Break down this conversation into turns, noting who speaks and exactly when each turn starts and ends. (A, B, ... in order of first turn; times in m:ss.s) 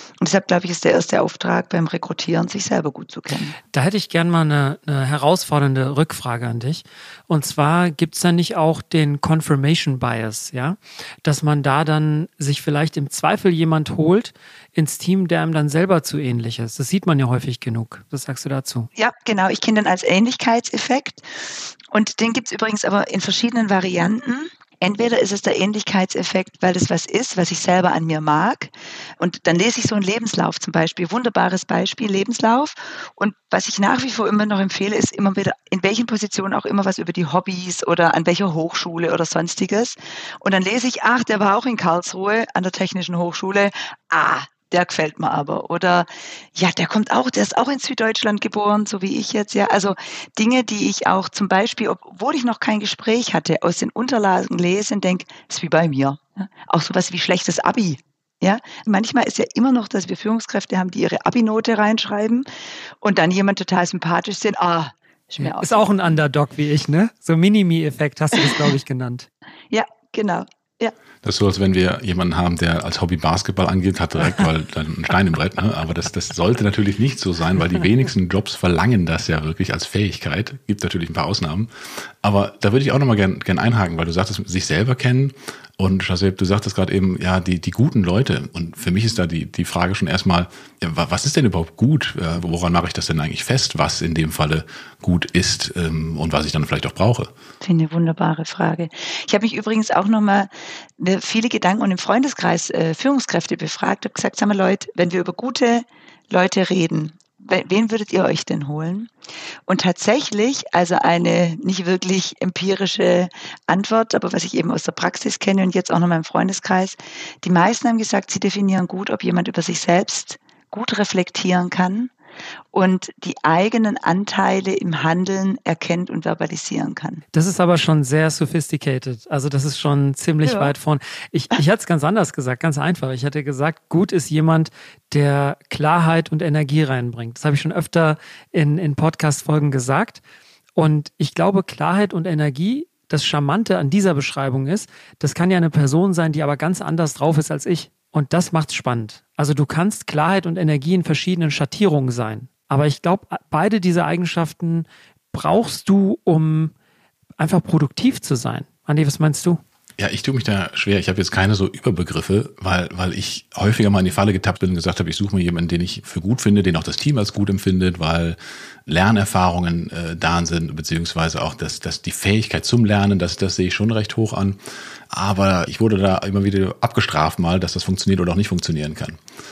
0:00.2-0:03.6 A
0:03.7-0:18.9 B
0:19.0-0:21.2 A
0:21.9-1:02.5 A
1:03.0-1:05.9 A
1:05.4-1:09.3 B
1:09.7-1:11.0 A
1:11.2-1:21.7 C
1:22.2-1:37.3 C
1:37.6-1:49.1 A
1:49.7-2:02.1 A
2:02.7-2:07.2 A
2:07.3-2:20.2 B
2:10.4-2:10.7 A
2:20.8-2:36.7 B
2:37.4-2:39.6 B
2:40.0-2:54.6 C
2:55.1-2:59.2 C